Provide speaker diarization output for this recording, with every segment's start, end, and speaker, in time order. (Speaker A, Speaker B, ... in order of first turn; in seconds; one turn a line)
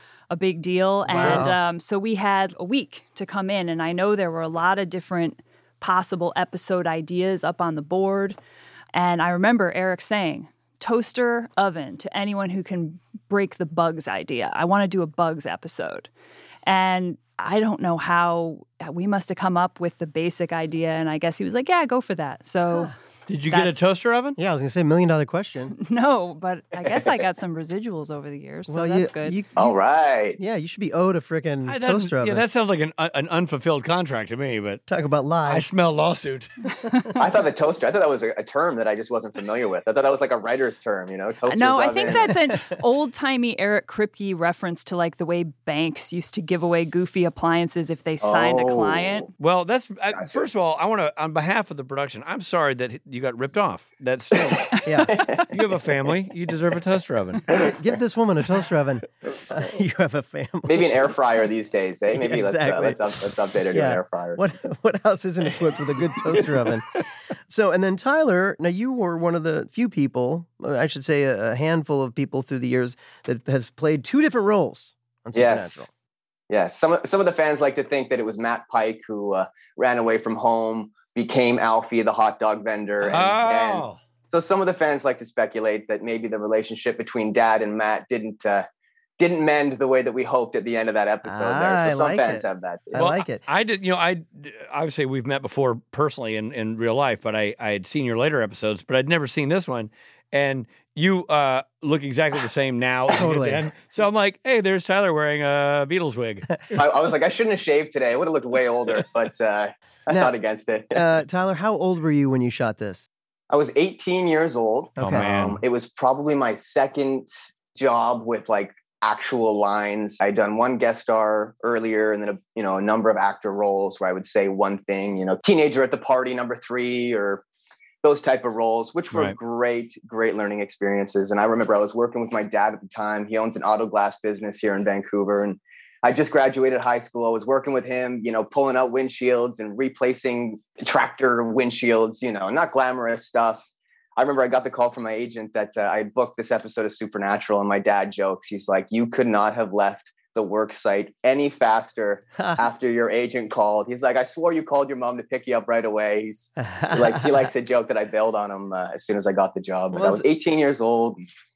Speaker A: 0.3-8.4
Speaker B: 1.1-1.6
Speaker C: 1.1-1.5
Speaker A: 8.9-16.1
Speaker A: 16.6-22.9
Speaker C: 23.3-24.4
Speaker A: 23.5-23.8
Speaker B: 24.4-25.8
Speaker A: 25.7-29.4
Speaker B: 28.7-29.8
Speaker D: 29.6-30.4
Speaker B: 30.4-32.4
Speaker C: 31.7-34.8
Speaker B: 34.9-35.7
Speaker C: 35.5-36.5
Speaker D: 37.2-42.5
Speaker A: 41.5-49.3
Speaker D: 48.2-49.3
Speaker C: 49.4-57.6
Speaker D: 50.1-50.4
Speaker D: 54.4-55.5
Speaker B: 54.9-55.2
Speaker D: 57.5-57.8
Speaker B: 57.5-61.1
Speaker D: 60.7-64.4
Speaker B: 62.1-63.1
Speaker B: 63.7-75.9
Speaker D: 75.3-75.9
Speaker D: 76.5-88.7
Speaker C: 83.0-84.0
Speaker D: 89.2-93.1
Speaker B: 91.3-93.4
Speaker C: 93.0-106.6
Speaker B: 103.1-103.7
Speaker D: 106.7-111.0
Speaker B: 110.9-113.1
Speaker D: 113.5-127.4
Speaker B: 115.0-115.3
Speaker C: 115.0-115.6
Speaker D: 128.0-143.7
Speaker D: 144.2-161.2
Speaker B: 156.6-157.5
Speaker B: 159.9-160.3